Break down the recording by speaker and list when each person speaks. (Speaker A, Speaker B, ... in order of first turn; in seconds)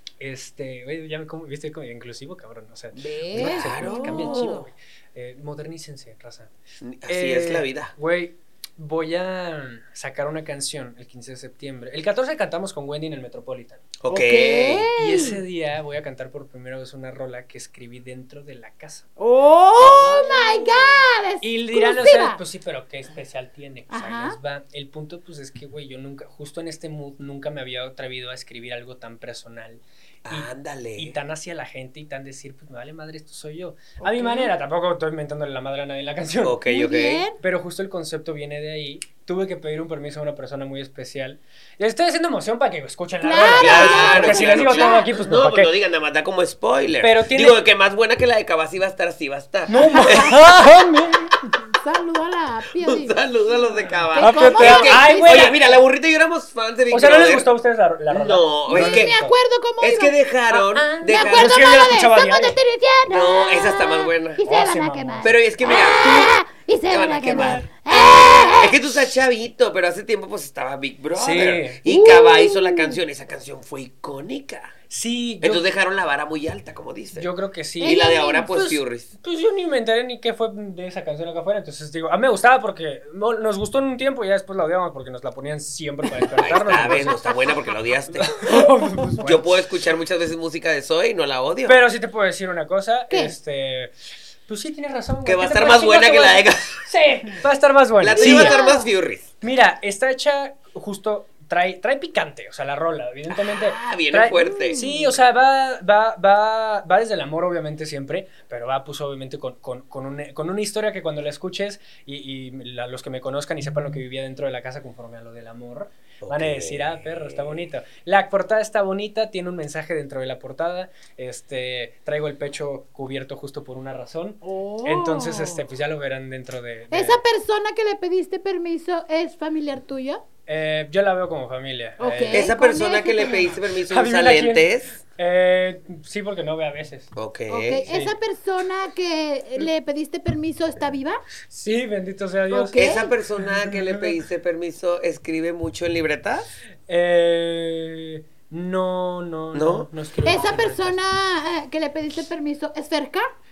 Speaker A: 0.2-6.5, 7.0-13.9, 14.9-19.1, 21.4-36.6, 37.4-45.7, 47.0-47.6, 49.7-51.5, 54.2-55.6, 56.9-59.3, 60.5-62.6, 64.4-65.3, 67.3-67.6, 71.1-71.8, 74.9-75.7, 77.2-87.2, 88.1-89.5, 91.6-93.9, 94.5-98.6, 99.4-127.2, 130.5-132.5, 133.9-137.1, 137.9-138.2, 141.5-142.8, 143.6-144.1, 146.9-150.9
Speaker B: 3.0-4.7, 14.1-15.4, 19.2-22.4, 23.9-24.4, 34.0-34.5, 36.7-37.4, 43.2-45.1, 49.8-50.4, 51.6-53.2, 54.1-55.6, 58.7-60.1, 61.1-68.8, 71.8-73.0, 77.8-78.6, 98.1-98.9, 104.4-105.1, 124.4-125.6, 126.9-130.2, 132.0-133.5, 137.5-141.2, 142.5-143.1, 150.2-153.3
Speaker C: 3.3-4.6, 6.8-7.9, 14.0-14.9, 19.8-21.0, 30.2-31.1, 36.4-37.2, 43.5-50.3, 52.8-57.5, 58.1-59.1, 59.8-61.7, 63.1-64.4, 65.2-66.3, 66.9-74.7, 75.4-77.3, 77.8-79.1, 86.4-91.8, 95.2-96.8, 98.0-99.3, 103.3-104.8, 116.2-117.6, 132.3-135.0, 137.2-138.0, 142.7-146.5, 149.5-149.9